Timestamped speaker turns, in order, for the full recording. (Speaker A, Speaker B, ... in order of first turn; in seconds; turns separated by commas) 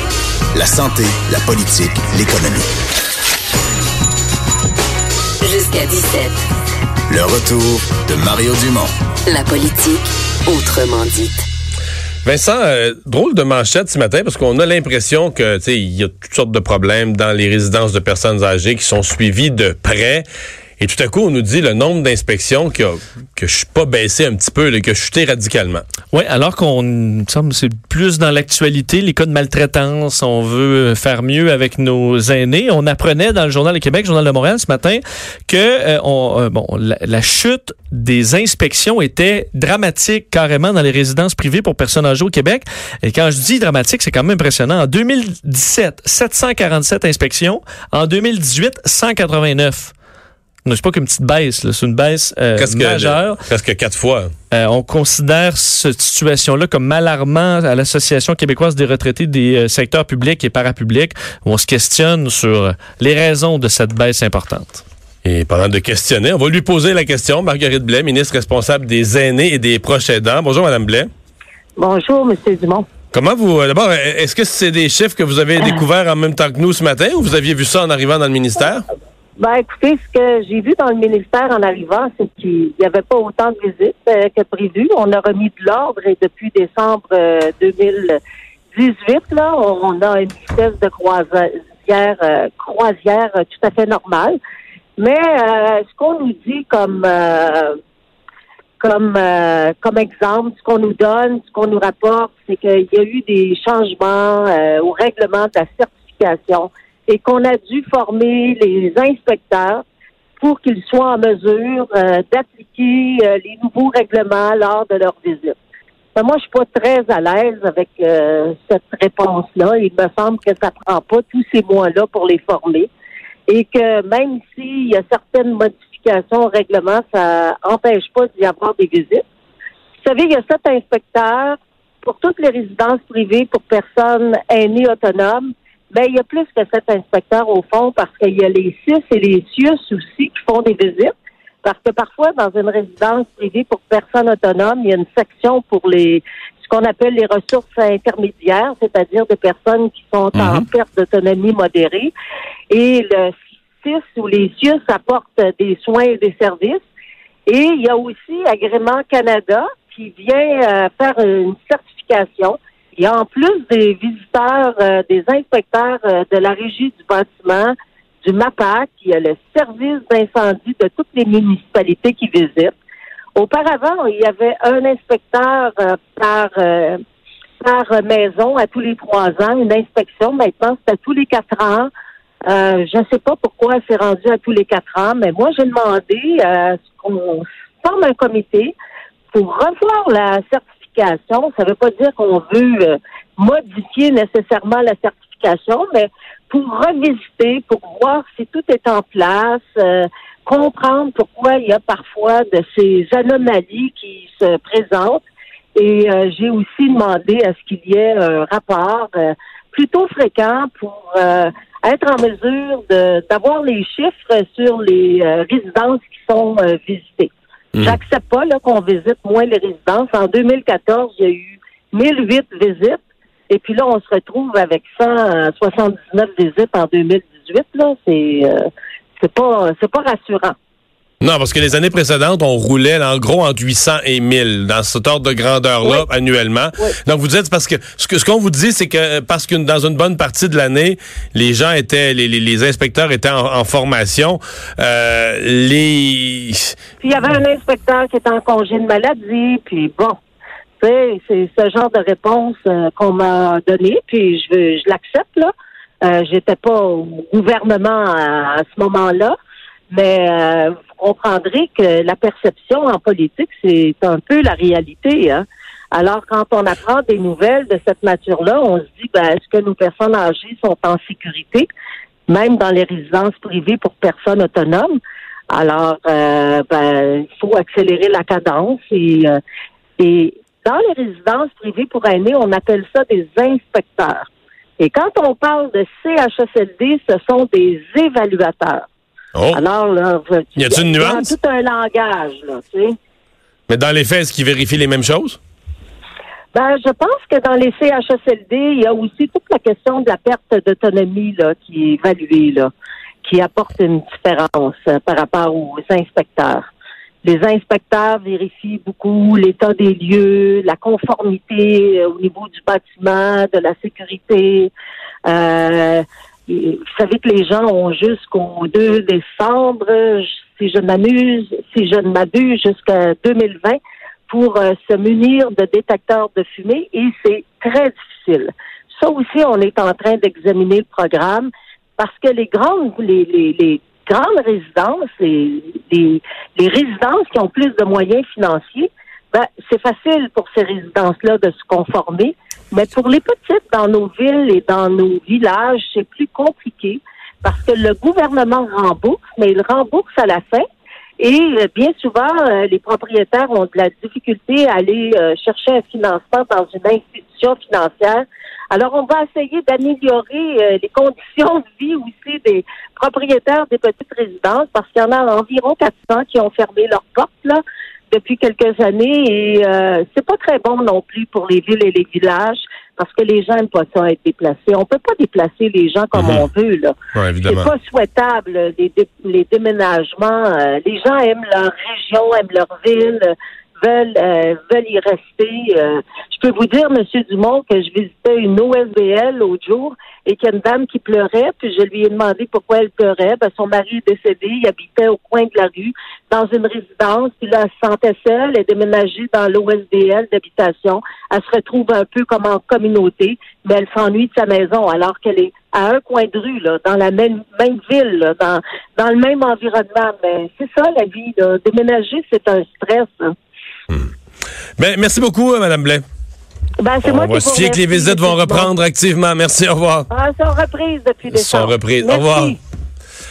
Speaker A: 0.5-2.7, Speaker B: 5.4-6.4, Speaker A: 7.1-8.9, Speaker B: 9.2-11.4, Speaker C: 12.2-20.3, Speaker C: 20.8-25.8, Speaker D: 26.1-49.9, Speaker D: 50.6-53.4, Speaker C: 52.6-54.3, Speaker D: 54.5-64.8, Speaker C: 65.2-71.1, Speaker E: 71.8-72.9, Speaker C: 73.1-78.8, Speaker E: 79.4-88.2, Speaker E: 88.7-94.4, Speaker E: 95.0-97.8, Speaker E: 98.8-109.8, Speaker E: 110.4-115.5, Speaker E: 116.1-122.9, Speaker E: 123.5-129.2, Speaker E: 130.0-141.1, Speaker E: 141.6-152.1, Speaker C: 150.3-150.6, Speaker E: 152.7-156.8, Speaker E: 157.5-172.7, Speaker E: 173.3-177.0, Speaker E: 177.6-181.9, Speaker E: 182.5-188.7, Speaker E: 189.3-205.2, Speaker E: 205.8-217.3, Speaker E: 217.8-223.0, Speaker E: 223.5-228.7, Speaker E: 229.2-230.6, Speaker C: 231.2-246.7, Speaker E: 247.0-250.2, Speaker E: 250.8-255.5, Speaker E: 256.0-259.4, Speaker E: 259.9-271.7, Speaker E: 272.3-275.0, Speaker E: 275.5-279.4, Speaker E: 280.0-284.3, Speaker E: 284.8-288.8, Speaker C: 289.3-289.6, Speaker E: 289.5-292.9, Speaker C: 290.6-291.3, Speaker C: 293.7-295.4, Speaker E: 296.5-302.7, Speaker E: 303.2-306.7, Speaker E: 307.2-314.7, Speaker E: 315.2-350.6, Speaker E: 351.2-413.3, Speaker C: 376.1-376.4, Speaker C: 377.1-377.7, Speaker C: 414.8-416.0, Speaker E: 416.8-418.7, Speaker C: 417.0-420.1, Speaker E: 420.1-422.6, Speaker C: 421.3-422.6